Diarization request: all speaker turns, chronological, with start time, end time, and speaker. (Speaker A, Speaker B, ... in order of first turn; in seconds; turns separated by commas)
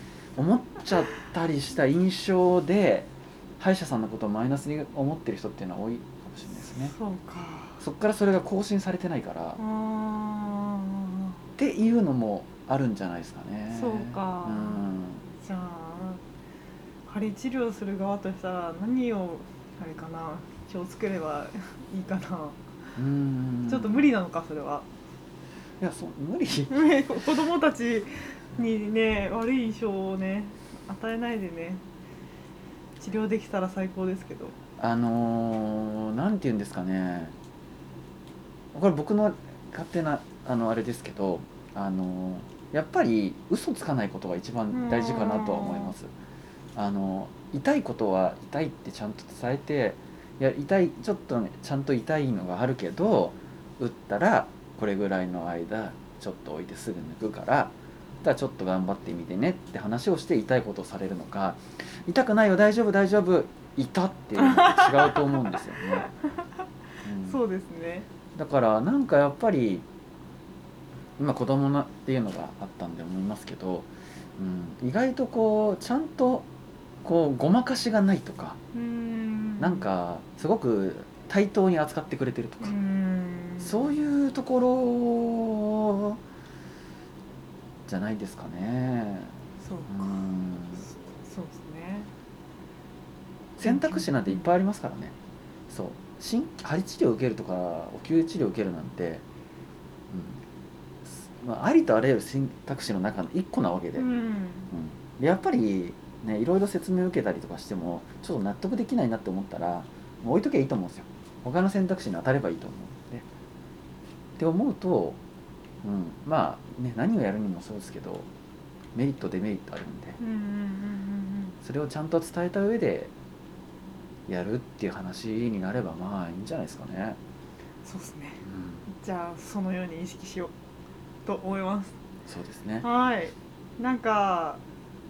Speaker A: 0.3-6.9, Speaker B: 6.8-7.8, Speaker A: 7.8-9.6, Speaker B: 9.6-11.3, Speaker A: 11.6-15.2, Speaker B: 13.7-14.8, Speaker B: 15.4-16.2, Speaker B: 17.1-22.6, Speaker A: 22.9-24.0, Speaker B: 23.7-24.9, Speaker A: 25.8-27.2, Speaker B: 26.7-31.8, Speaker B: 33.0-34.5, Speaker A: 34.8-37.3, Speaker A: 38.7-46.1, Speaker B: 44.7-45.9, Speaker A: 46.7-66.1, Speaker B: 64.4-65.6, Speaker A: 67.0-67.4, Speaker B: 67.2-68.0, Speaker A: 68.3-69.8, Speaker A: 71.2-76.5, Speaker A: 77.0-78.6, Speaker B: 78.7-79.9, Speaker A: 79.6-82.7, Speaker B: 82.6-83.9, Speaker A: 83.6-86.2, Speaker A: 87.8-89.3, Speaker B: 89.6-90.1, Speaker A: 89.9-90.9, Speaker B: 91.2-92.1, Speaker A: 93.6-95.1, Speaker B: 93.6-94.5, Speaker A: 95.7-99.2, Speaker A: 100.1-100.4, Speaker A: 101.0-104.0, Speaker B: 104.0-104.7, Speaker A: 104.7-113.2, Speaker A: 114.4-115.2, Speaker A: 115.8-118.3, Speaker A: 118.9-120.2, Speaker B: 120.2-121.5, Speaker A: 121.6-123.1, Speaker A: 124.3-127.2, Speaker B: 127.8-130.5, Speaker A: 128.4-128.8, Speaker B: 131.2-131.9, Speaker A: 132.3-132.8, Speaker B: 132.8-134.6